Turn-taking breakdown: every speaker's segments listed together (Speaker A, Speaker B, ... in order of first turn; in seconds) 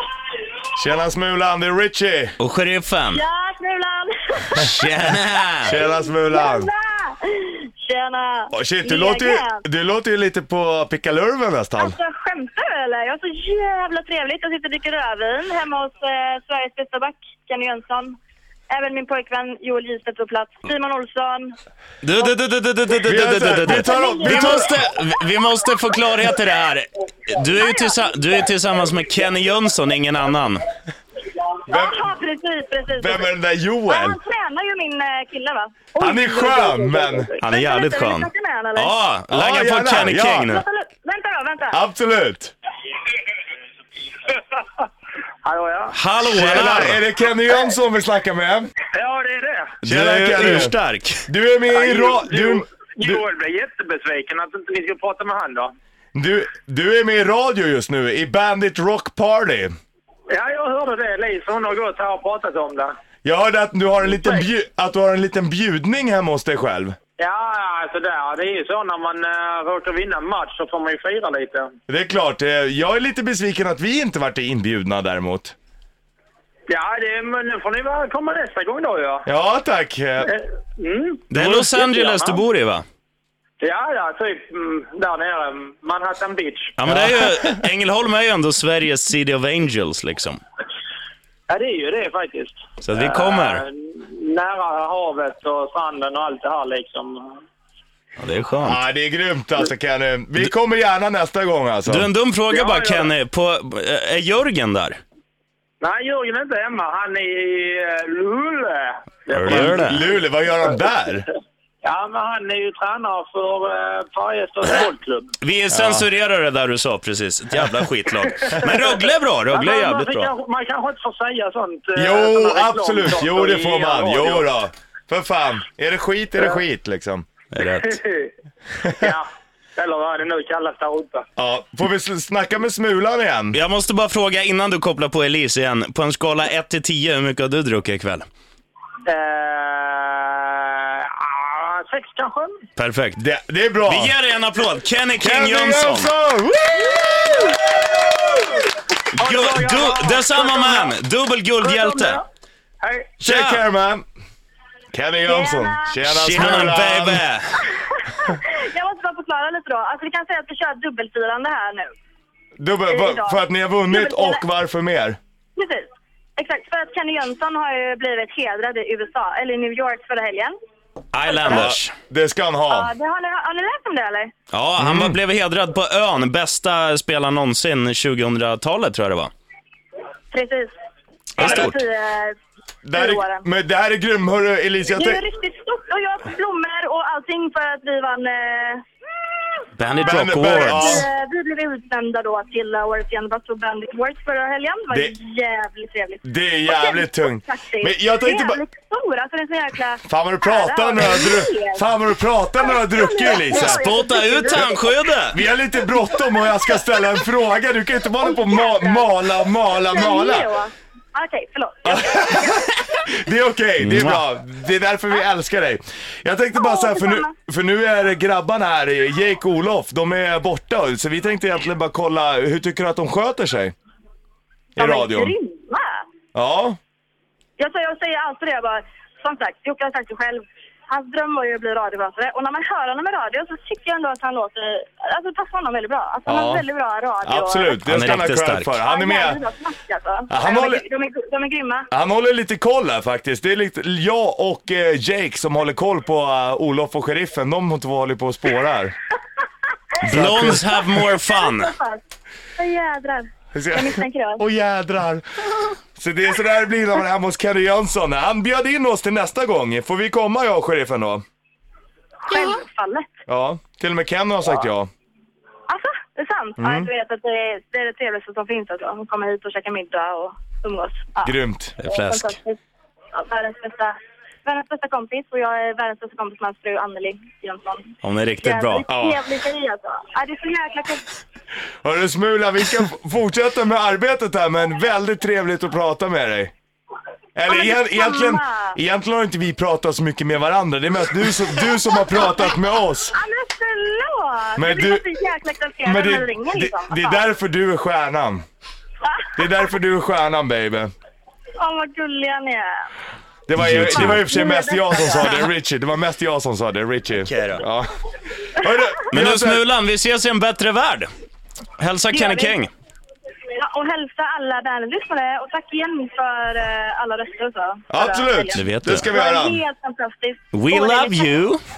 Speaker A: 0.8-2.4, 5.6-6.7, 8.5-12.0, 23.1-24.8, 31.7-32.0, 33.0-34.2, 36.0-37.3, 39.3-40.5, 41.7-42.5, 46.3-48.7, 49.8-50.8, 51.3-53.2, 56.1-59.7, 63.2-67.0, 71.9-75.5, 79.3-80.3, 86.9-87.3, 98.6-102.1, 109.4-111.3, 115.7-116.0, 122.0-127.3, 131.4-133.6, 143.2-144.2, 145.2-148.4, 153.2-154.1, 154.9-157.2, 162.6-165.2, 171.4-172.9, 174.8-175.2, 181.4-181.7, 182.8-185.2, 190.0-191.1, 196.2-198.6, 200.1-203.9, 205.3-210.5, 211.8-223.7, 224.8-225.3, 226.3-226.8, 236.3-236.7, 237.2-239.4, 240.3-240.8, 241.9-248.9, 250.0-250.7, 253.5-255.4, 256.0-261.2, 263.3-264.9, 266.6-266.9, 271.2-271.8, 278.9-279.2, 281.8-286.5, 287.4-293.1, 294.6-295.0, 295.9-298.4, 299.4-300.9, 303.5-307.9, 308.6-309.6, 317.9-319.6
Speaker B: 2.4-3.2, 4.6-5.7, 22.0-30.6, 37.4-40.6, 45.9-47.0, 49.8-51.2, 81.3-82.8, 86.8-90.4, 92.8-93.6, 98.2-98.8, 101.9-105.0, 109.3-110.0, 115.4-120.3, 127.5-128.0, 133.5-138.3, 142.8-143.2, 143.9-146.1, 149.2-152.2, 153.2-153.6, 156.0-157.5, 171.1-171.9, 174.5-179.3, 181.4-181.8, 189.8-191.0, 203.5-205.4, 213.8-214.3, 237.8-238.8, 250.0-251.7, 271.8-272.4, 278.0-278.9, 303.6-304.2, 307.2-307.6, 309.1-311.1, 311.8-312.7, 318.5-319.1, 320.5-321.6
Speaker C: 3.1-4.8, 5.7-9.6, 11.8-18.2, 18.7-21.5, 23.6-24.7, 27.5-28.0, 31.7-33.3, 33.9-35.9, 37.4-38.9, 40.3-41.8, 155.3-156.7, 157.7-161.9, 162.9-164.4, 165.6-170.6, 171.3-171.7, 172.7-174.3, 180.3-180.7, 181.4-182.4, 182.9-183.4, 185.0-201.8, 202.6-204.8, 205.8-207.0, 208.2-209.1, 209.8-212.8, 216.6-217.3, 224.8-226.1, 227.6-237.8, 238.9-241.9, 251.2-252.0, 252.6-254.4, 262.3-263.1, 265.7-271.3, 271.9-272.6, 273.1-281.0, 287.5-288.8, 293.1-297.2, 301.6-302.9, 303.9-305.4, 312.1-312.6, 313.5-321.4
Speaker D: 36.0-37.4, 45.4-46.0, 48.9-49.8, 51.7-55.7, 60.3-62.9, 64.0-64.5, 67.2-71.7, 76.7-79.2, 80.3-82.4, 83.6-86.8, 91.5-97.4, 102.5-103.1, 105.8-110.0, 111.8-115.3, 118.3-124.5, 127.8-128.3, 128.8-131.3, 139.1-142.6, 149.2-150.9, 151.6-152.2, 152.8-153.1